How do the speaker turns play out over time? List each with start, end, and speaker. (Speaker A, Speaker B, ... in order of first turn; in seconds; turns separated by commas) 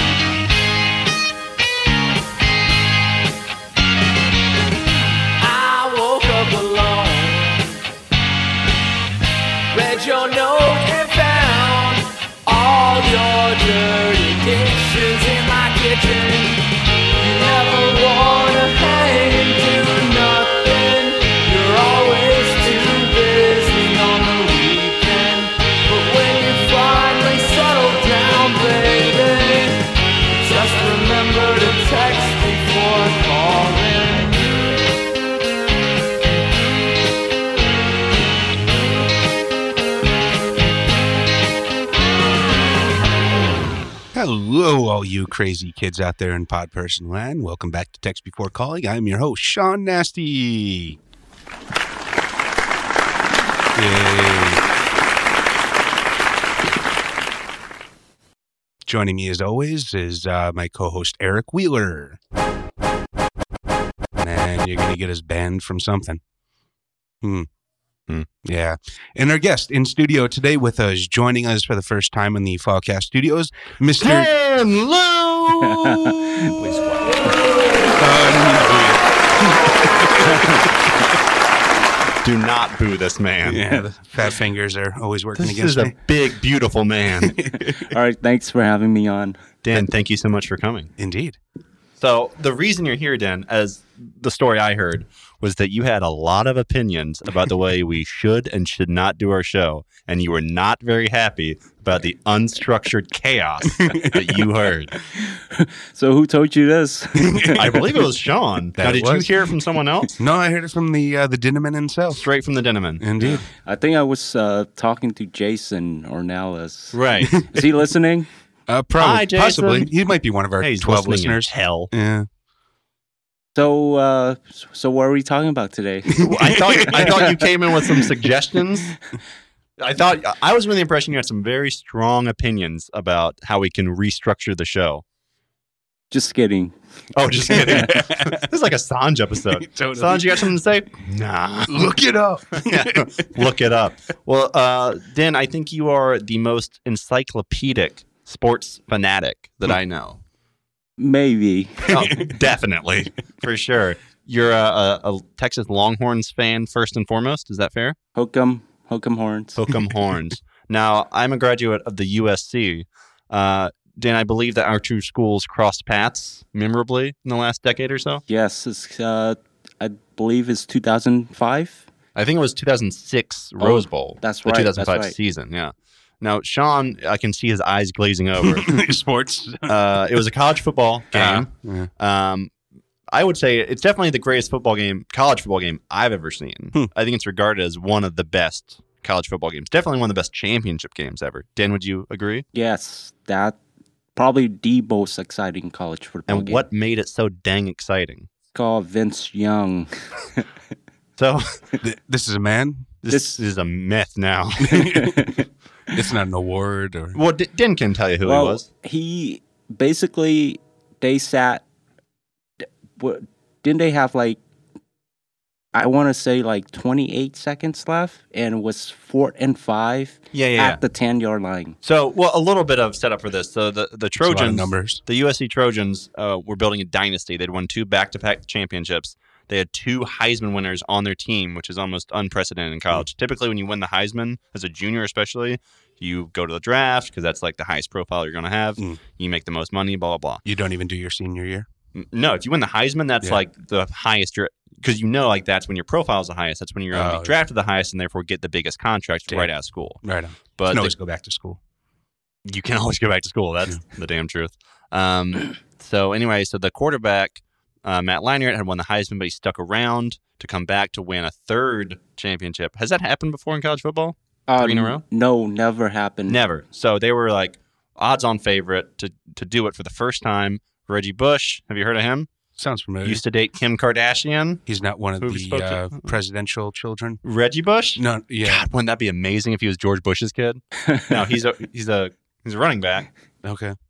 Speaker A: 5.4-7.8, Speaker A: 9.7-34.8, Speaker B: 44.1-51.0, Speaker B: 53.7-54.6, Speaker B: 58.8-62.2, Speaker B: 64.2-66.2, Speaker B: 67.2-67.5, Speaker B: 68.4-74.3, Speaker C: 74.0-77.3, Speaker D: 75.7-76.1, Speaker B: 78.0-79.1, Speaker B: 79.6-80.7, Speaker C: 82.2-83.6, Speaker B: 83.4-85.9, Speaker C: 85.3-87.3, Speaker B: 87.2-87.9, Speaker D: 87.4-89.4, Speaker C: 89.6-90.9, Speaker B: 91.0-91.4, Speaker C: 92.0-104.9, Speaker B: 103.8-104.5, Speaker D: 105.2-107.8, Speaker B: 107.3-107.8, Speaker C: 107.5-110.1, Speaker B: 108.8-109.3, Speaker B: 110.2-112.3, Speaker C: 112.2-113.4, Speaker B: 113.0-113.4, Speaker D: 113.5-118.3, Speaker C: 116.9-117.7, Speaker B: 117.2-117.5, Speaker B: 118.7-122.3, Speaker C: 119.0-119.9, Speaker C: 120.6-121.9, Speaker D: 123.5-128.1, Speaker B: 126.1-127.1, Speaker C: 126.2-128.9, Speaker C: 129.8-135.0, Speaker D: 136.1-136.7, Speaker C: 137.1-142.0, Speaker B: 137.5-138.4, Speaker D: 137.6-138.0, Speaker B: 139.5-140.5, Speaker B: 141.7-143.2, Speaker C: 142.6-150.2, Speaker D: 151.0-151.9, Speaker C: 151.9-157.9, Speaker B: 151.9-152.3, Speaker D: 158.2-159.7, Speaker C: 159.6-168.2, Speaker D: 168.3-171.8, Speaker C: 172.1-178.8, Speaker D: 173.6-175.2, Speaker B: 178.4-179.8, Speaker C: 179.7-182.5, Speaker B: 181.1-181.9, Speaker C: 183.1-192.4, Speaker D: 192.5-193.6, Speaker D: 194.2-196.6, Speaker C: 196.3-198.3, Speaker D: 198.5-200.4, Speaker C: 201.2-201.4, Speaker B: 201.8-202.9, Speaker C: 203.0-204.9, Speaker D: 203.1-203.4, Speaker B: 204.6-205.4, Speaker D: 204.8-205.4, Speaker B: 205.9-207.2, Speaker C: 207.1-208.7, Speaker D: 208.2-211.6, Speaker D: 212.6-214.4, Speaker D: 215.7-221.8, Speaker C: 220.3-220.8, Speaker C: 221.8-240.4, Speaker B: 224.2-225.0, Speaker B: 240.4-241.7, Speaker C: 241.9-250.0, Speaker B: 246.9-247.3, Speaker B: 250.0-251.6, Speaker C: 250.6-250.9, Speaker C: 252.5-265.0, Speaker D: 264.5-266.4, Speaker C: 266.3-272.3, Speaker B: 272.6-273.2, Speaker C: 273.0-274.6, Speaker B: 274.7-277.2, Speaker C: 275.2-276.1, Speaker C: 277.2-283.1, Speaker B: 278.0-278.7, Speaker B: 283.4-283.7